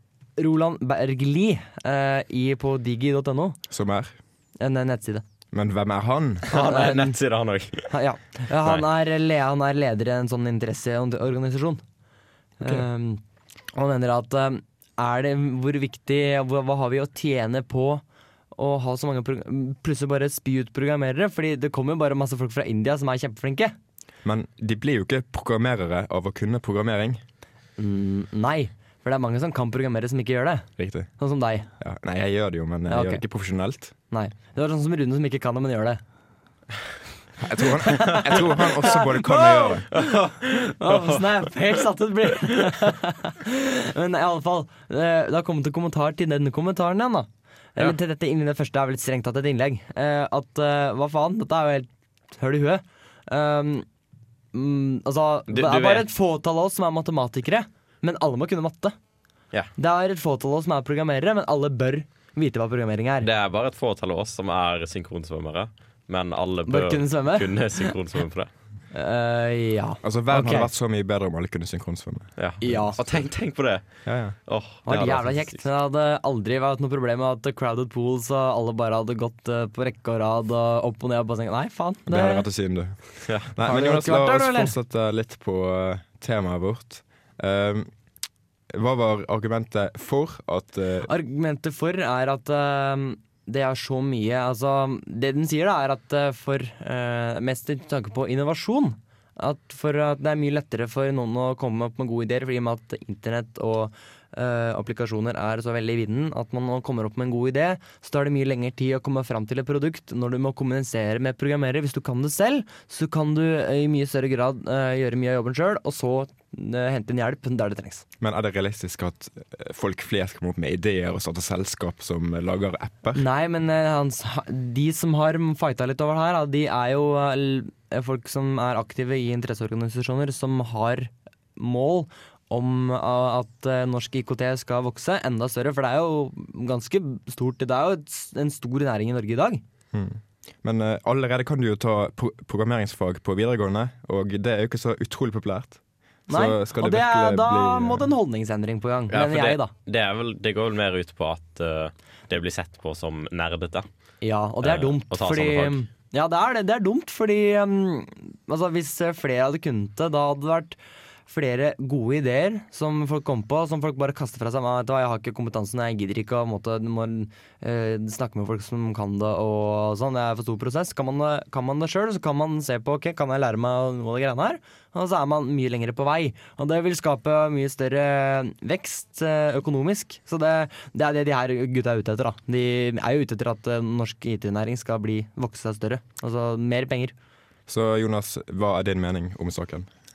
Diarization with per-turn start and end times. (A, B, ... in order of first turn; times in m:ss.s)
0:00.4-0:03.6 A
0:03.7-0:04.1 B
0:04.6-0:05.2 A
0:05.5-0:06.5 B
0:06.5-0:07.2 A
0:06.5-0:07.9 C
0:07.9-0:11.8 A
0:12.6-0:13.2 A
0:13.8-0:18.0 A
0:18.5-0:23.7 A
0:24.2-0:27.2 B
0:27.8-0:30.7 A
0:30.8-0:31.1 B
0:31.2-0:31.7 A
0:31.8-0:33.9 B
0:32.9-0:33.2 A
0:34.1-0:36.0 A
0:37.4-0:39.9 B
0:37.8-0:40.0 A
0:39.9-0:41.5 C
0:40.6-0:53.9 A
0:54.5-0:59.0 A
0:55.5-0:56.1 C
0:59.8-1:03.3 A
1:03.2-1:08.5 C
1:06.7-1:07.7 A
1:08.9-1:10.7 A
1:10.0-1:12.3 B
1:12.4-1:13.8 C
1:12.6-1:13.0 A
1:14.0-1:14.4 B
1:14.5-1:15.6 C
1:14.8-1:22.4 A
1:22.1-1:27.9 B
1:23.6-1:24.7 A
1:28.7-1:31.1 B
1:31.1-1:58.0 A
1:58.2-2:03.2 B
2:03.1-2:19.6 A
2:19.9-2:28.1 B
2:26.3-2:29.7 A
2:29.1-2:33.8 C
2:34.2-2:40.8 A
2:34.6-2:35.8 C
2:41.3-3:07.1 A
3:07.7-3:09.9 B